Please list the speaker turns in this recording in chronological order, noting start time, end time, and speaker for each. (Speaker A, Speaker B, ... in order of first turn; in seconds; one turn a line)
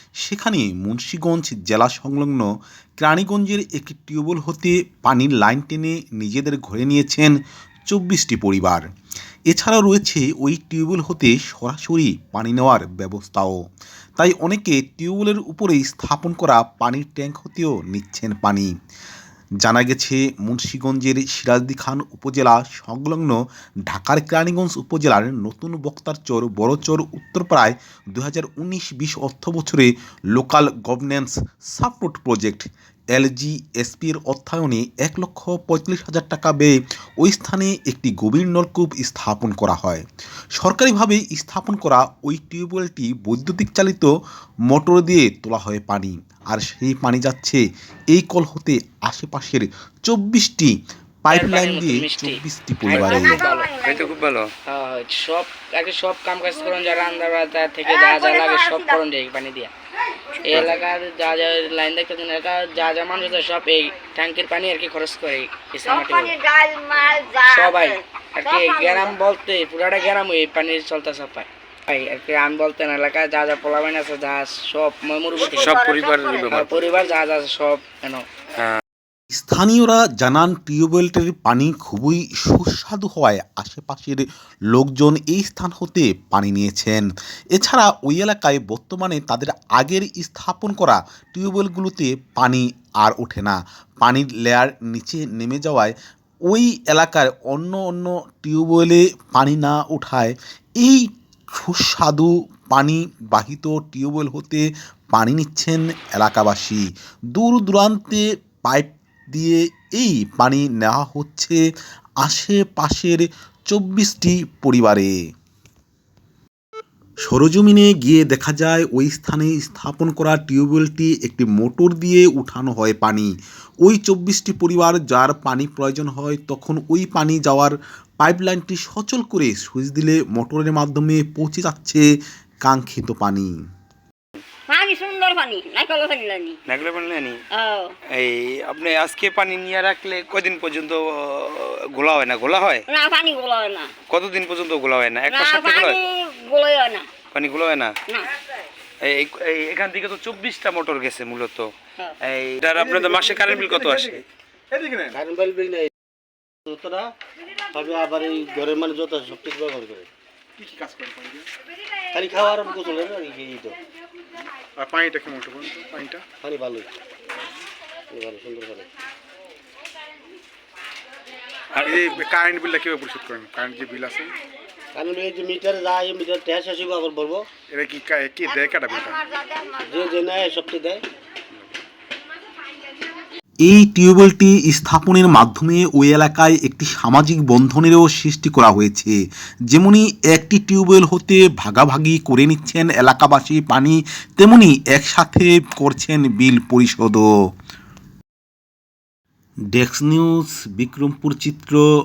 Speaker A: 0.2-2.5
Speaker A: 3.0-7.3
Speaker A: 7.9-8.8
Speaker A: 9.5-13.6
Speaker A: 14.2-18.7
Speaker A: 19.6-23.4
Speaker A: 23.9-40.0
Speaker A: 40.6-44.1
Speaker A: 44.7-50.7
Speaker A: 51.2-53.4
Speaker B: 51.3-53.8
Speaker C: 52.9-54.3
Speaker D: 53.8-54.5
Speaker B: 54.7-59.7
Speaker C: 57.9-59.0
Speaker B: 60.4-66.3
Speaker C: 65.8-69.1
Speaker B: 67.4-75.8
Speaker D: 75.3-76.8
Speaker C: 75.4-77.0
Speaker B: 76.5-78.2
Speaker A: 79.3-95.9
Speaker A: 96.5-106.8
Speaker A: 107.3-111.6
Speaker A: 112.2-115.1
Speaker A: 117.3-123.3
Speaker A: 123.8-132.0
Speaker A: 132.6-133.5
Speaker C: 134.7-136.6
Speaker D: 136.7-137.4
Speaker C: 137.5-137.9
Speaker D: 138.1-142.8
Speaker C: 142.9-144.0
Speaker D: 144.1-146.0
Speaker C: 145.2-147.2
Speaker D: 147.2-148.0
Speaker D: 149.0-154.2
Speaker E: 152.7-155.2
Speaker F: 155.1-155.9
Speaker F: 156.7-157.1
Speaker F: 157.7-160.1
Speaker E: 160.6-161.5
Speaker F: 162.1-163.8
Speaker E: 164.8-166.2
Speaker F: 166.4-166.9
Speaker F: 168.1-168.9
Speaker D: 171.7-172.2
Speaker E: 171.8-174.3
Speaker F: 174.9-177.5
Speaker E: 177.7-179.2
Speaker C: 179.0-180.0
Speaker F: 179.8-181.0
Speaker A: 183.7-189.2
Speaker A: 189.7-197.2
Speaker A: 199.7-201.8